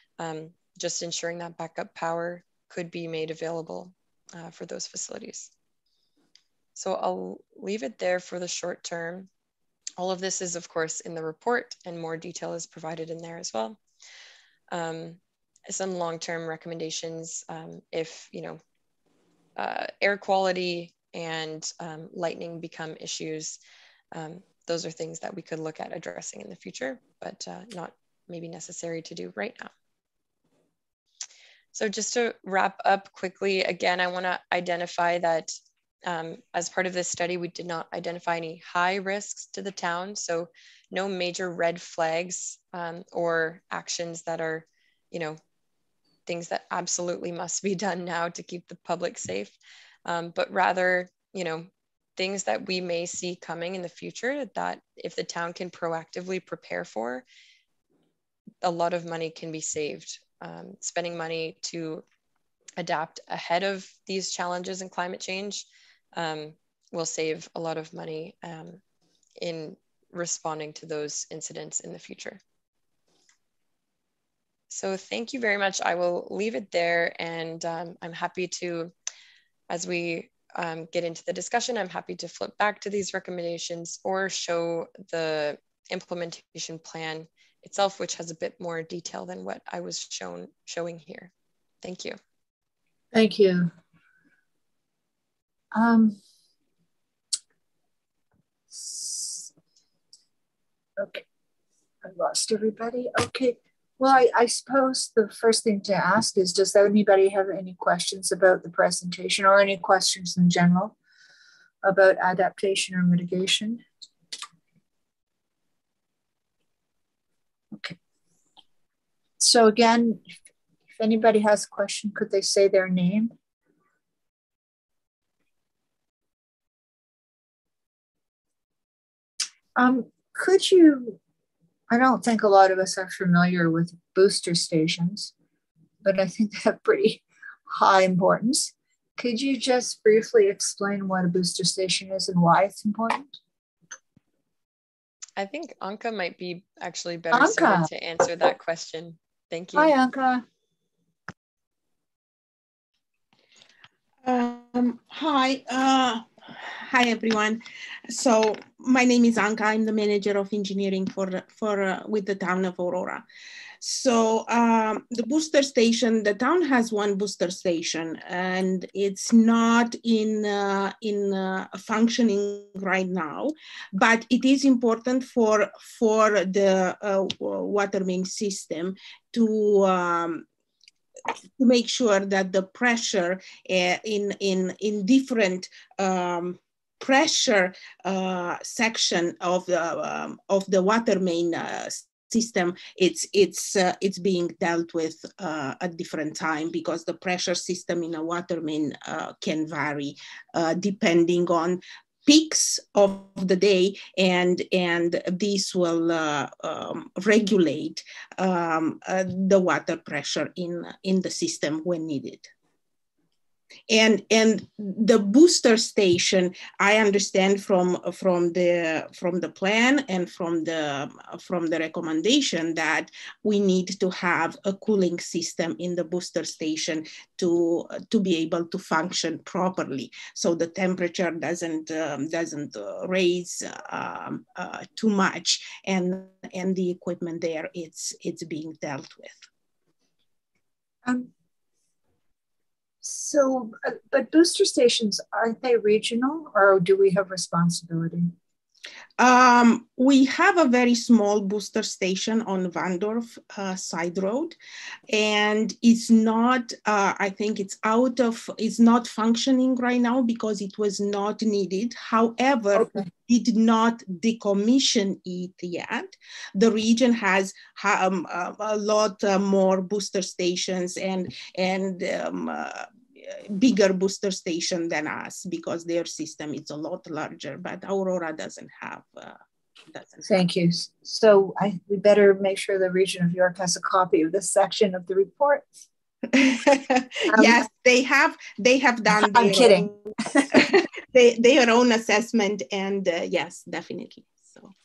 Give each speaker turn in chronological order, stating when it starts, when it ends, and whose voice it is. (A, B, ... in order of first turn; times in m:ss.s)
0:00.2-0:05.5 A
0:06.8-0:09.3 A
0:10.0-0:13.8 A
0:14.7-0:18.6 A
0:19.6-0:23.6 A
0:24.1-0:29.7 A
0:31.7-0:45.4 A
0:46.3-0:49.6 A
0:50.1-0:57.2 A
0:58.6-1:02.0 A
1:02.8-1:08.8 A
1:09.4-1:12.4 A
1:14.7-1:18.9 A
1:19.7-1:31.3 A
1:31.8-1:32.2 A
1:33.1-1:33.7 B
1:35.7-1:36.2 B
1:38.7-1:39.5 B
1:41.0-1:41.2 B
1:42.0-1:51.0 B
1:51.8-1:53.8 B
1:59.4-2:00.2 B
2:01.0-2:03.3 B
2:09.8-2:11.2 B
2:11.9-2:15.3 B
2:16.0-2:23.4 B
2:25.4-2:29.9 A
2:27.3-2:27.9 B
2:29.7-2:30.4 B
2:34.2-2:43.2 C
2:43.8-3:00.4 C
3:01.6-3:32.5 C
3:33.9-3:59.4 C
4:01.0-4:01.3 B
4:03.0-4:08.3 B
4:09.2-4:14.6 C
4:15.1-4:39.4 C
4:22.8-4:23.1 B
4:39.9-4:40.4 C
4:40.3-4:45.7 B
4:46.3-4:54.7 C
4:47.3-4:47.6 B
4:49.1-4:50.7 B